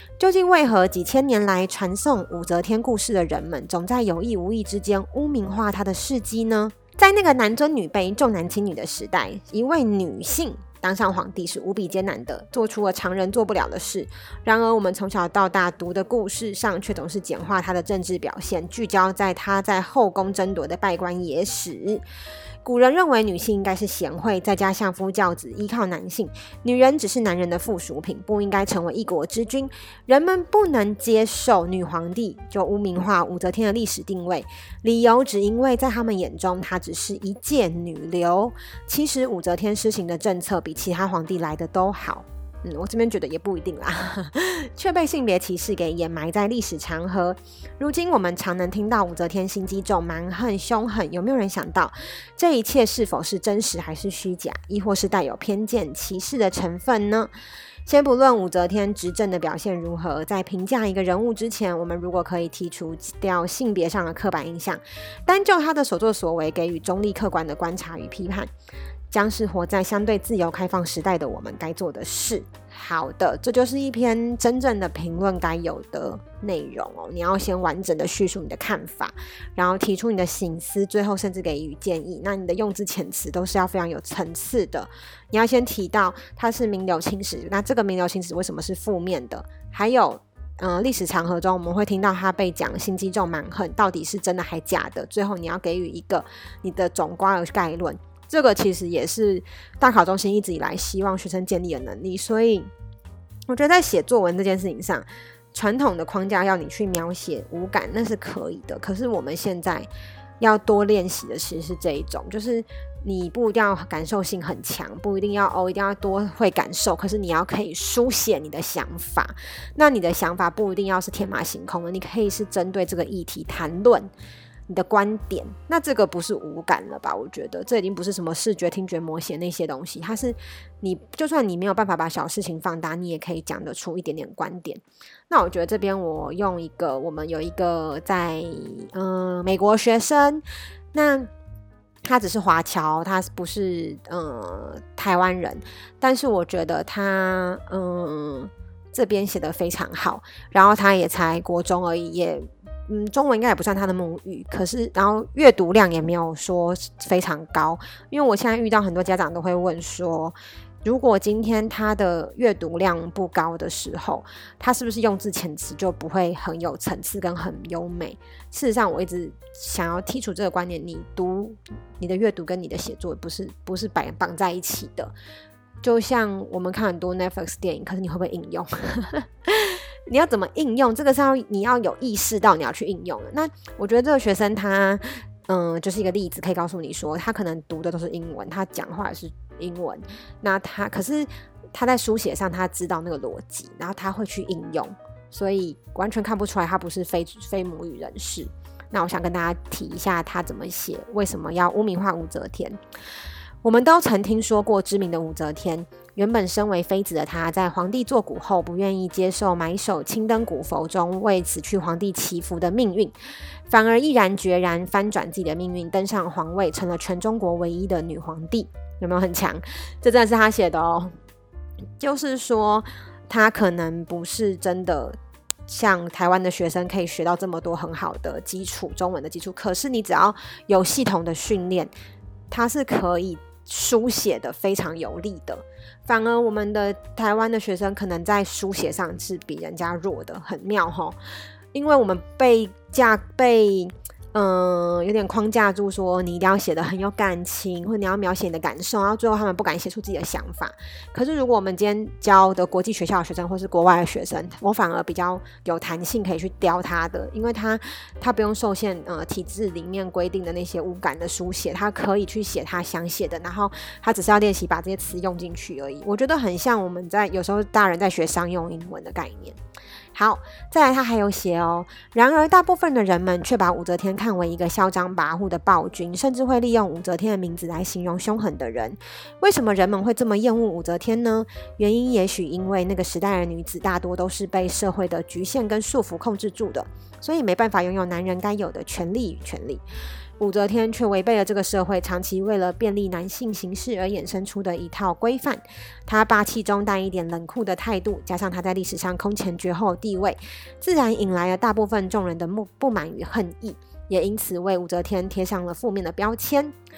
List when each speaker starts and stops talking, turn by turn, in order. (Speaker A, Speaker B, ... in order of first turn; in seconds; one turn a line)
Speaker A: 0.2-22.0
Speaker A: 22.6-57.3
Speaker A: 57.9-68.5
Speaker A: 69.1-102.7
Speaker A: 103.5-109.9
Speaker A: 110.4-124.1
Speaker A: 124.7-141.3
Speaker A: 142.0-175.1
Speaker A: 175.8-202.8
Speaker A: 203.6-213.1
Speaker A: 213.7-221.1
Speaker A: 222.0-225.2
Speaker A: 225.7-231.9
Speaker A: 232.5-241.2
Speaker A: 241.7-269.6
Speaker A: 270.1-289.8
Speaker A: 290.4-306.7